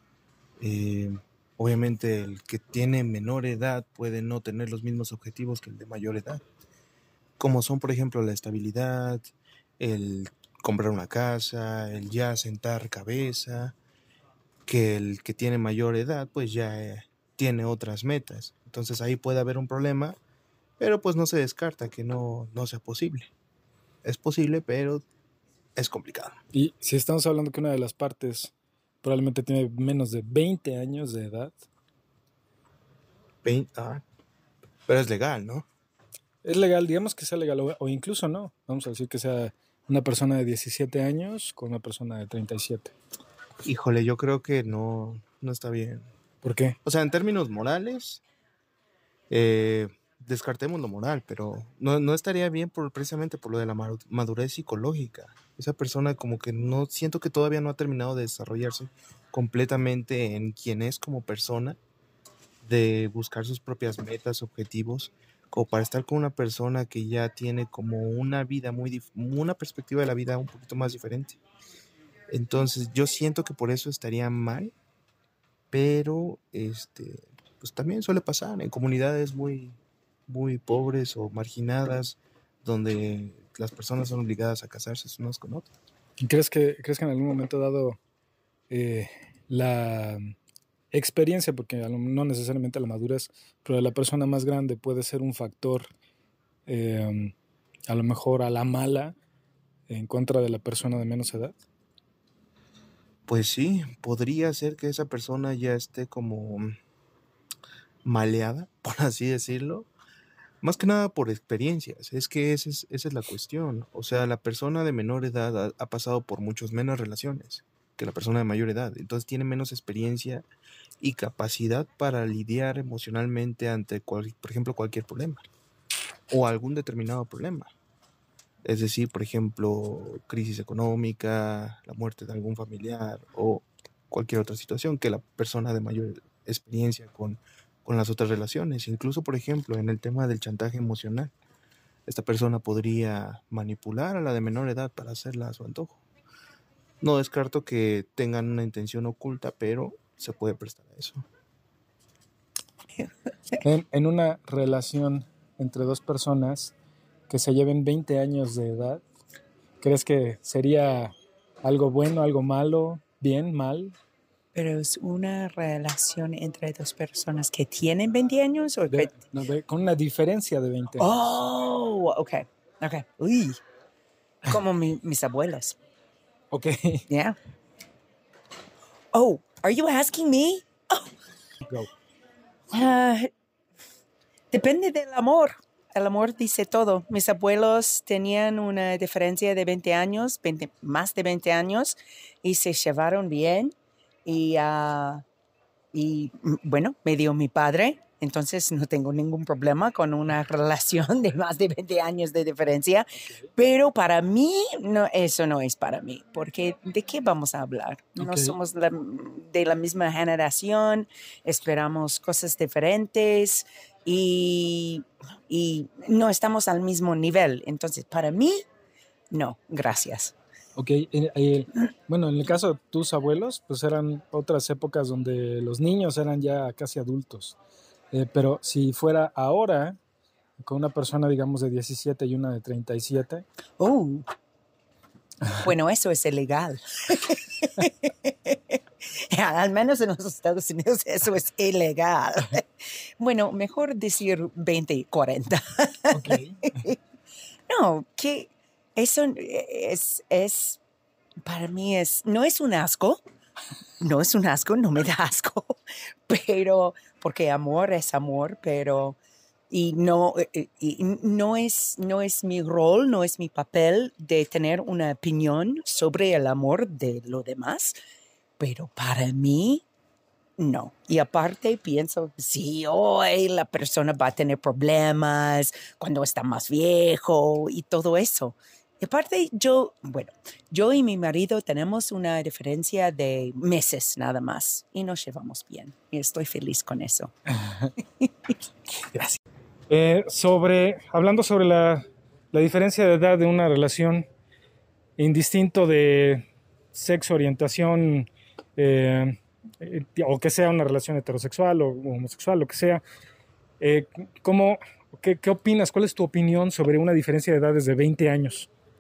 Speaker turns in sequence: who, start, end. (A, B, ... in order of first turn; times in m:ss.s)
0:00.6-0:06.4 A
0:07.4-0:13.8 A
0:14.7-0:20.2 A
0:20.8-0:23.3 A
0:24.0-0:25.0 A
0:25.8-0:26.4 A
0:26.5-0:28.5 B
0:29.0-0:31.6 B
0:33.4-0:34.0 A
0:34.9-0:35.7 A
0:36.4-0:42.9 B
0:43.6-0:46.1 A
0:46.4-0:46.8 B
0:46.8-0:48.2 A
0:49.3-1:01.8 A
1:02.6-1:11.4 A
1:12.3-1:14.7 A
1:15.7-1:25.7 A
1:26.2-1:28.0 B
1:28.7-1:30.3 B
1:30.9-1:35.9 B
1:36.7-1:37.3 B
1:37.9-1:39.2 B
1:39.9-1:41.6 B
1:43.3-1:46.8 A
1:48.0-1:49.9 A
1:50.6-2:00.4 A
2:01.0-2:05.4 A
2:06.3-2:07.7 A
2:08.6-2:21.3 A
2:22.1-2:26.0 A
2:27.0-2:31.3 A
2:33.6-2:36.7 B
2:37.3-2:39.0 B
2:39.8-2:44.0 B
2:44.5-2:49.2 C
2:48.9-2:51.1 B
2:51.0-2:53.6 C
2:54.5-2:55.8 C
2:56.5-2:57.0 B
2:57.1-2:57.4 C
2:59.1-3:01.1 C
3:02.7-3:03.3 C
3:04.5-3:13.7 C
3:14.2-3:15.2 C
3:15.9-3:38.6 C
3:23.2-3:23.5 B
3:28.2-3:28.6 B
3:39.3-3:40.4 C
3:40.8-3:47.6 B
3:48.1-3:50.0 B
3:50.6-3:53.4 B
3:53.8-3:54.3 C
3:55.6-3:58.8 C
3:59.3-4:02.6 C
4:03.2-4:07.0 C
4:07.7-4:10.8 C
4:11.4-4:13.2 C
4:14.0-4:19.2 C
4:19.7-4:28.0 C
4:28.6-4:29.8 C
4:30.6-4:47.3 C
4:49.9-4:54.3 B
4:55.2-4:56.4 B
4:56.9-5:03.0 B
5:03.8-5:08.7 B